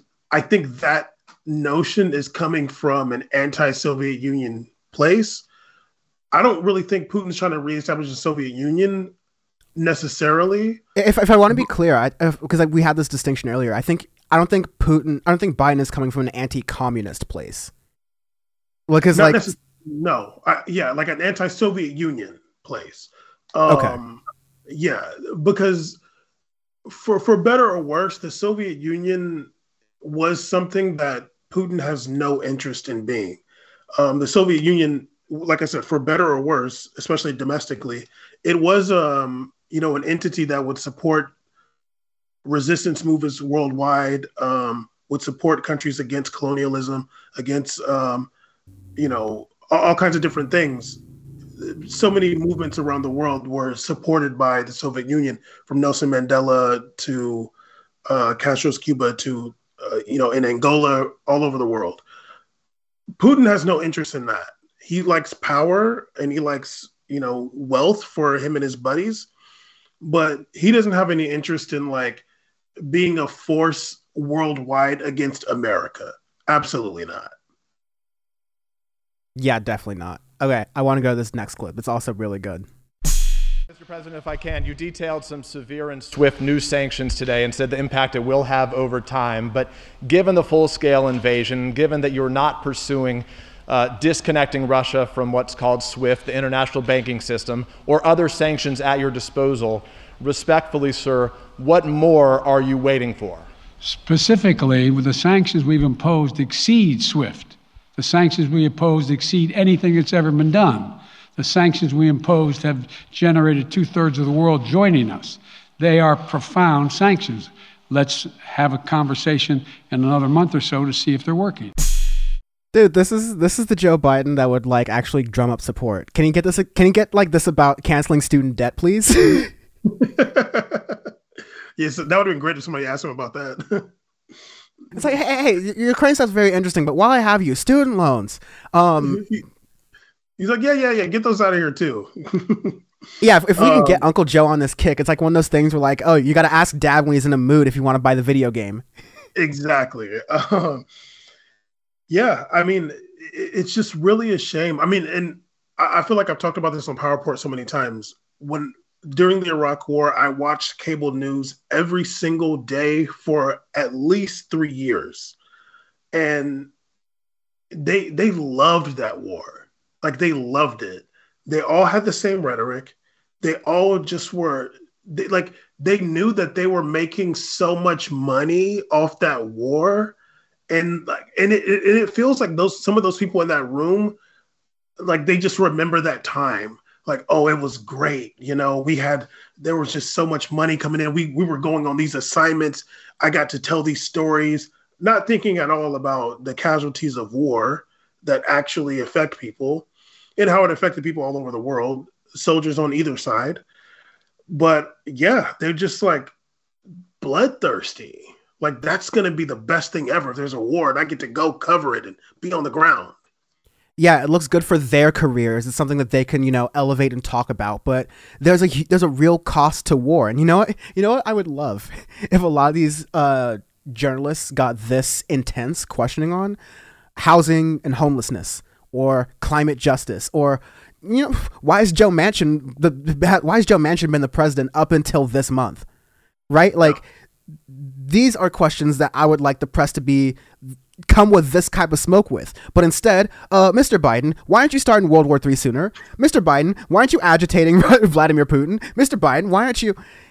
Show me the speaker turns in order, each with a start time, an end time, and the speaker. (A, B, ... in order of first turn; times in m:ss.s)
0:00.3-0:05.4 A
0:06.3-0:09.1 A
0:09.8-0:10.8 A
0:11.0-0:17.7 B
0:18.9-0:19.5 B
0:19.1-0:26.0 A
0:23.7-0:24.0 B
0:26.9-0:29.5 A
0:30.0-0:33.4 A
0:34.0-0:41.3 A
0:42.4-0:48.3 A
0:49.0-0:51.0 A
0:51.6-0:57.5 A
0:58.1-1:02.0 A
1:03.2-1:09.3 A
1:10.0-1:12.2 A
1:12.8-1:17.3 A
1:19.4-1:22.7 B
1:23.7-1:43.5 C
1:43.8-2:01.7 D
2:02.7-2:09.5 B
2:09.9-2:11.1 A
2:11.8-2:13.9 A
2:15.0-2:19.3 B
2:19.0-2:19.4 A
2:20.4-2:22.8 A
2:23.2-2:28.8 B
2:23.6-2:24.0 A
2:29.4-2:30.9 A
2:32.1-2:45.4 A
2:46.1-2:46.7 A
2:47.7-3:00.2 A
3:00.7-3:04.2 A
3:05.0-3:19.9 A
3:20.4-3:23.6 A
3:24.5-3:26.3 A
3:27.2-3:33.1 A
3:34.0-3:46.6 B
3:47.2-3:55.8 B
3:56.5-3:57.1 B
3:57.7-4:10.0 B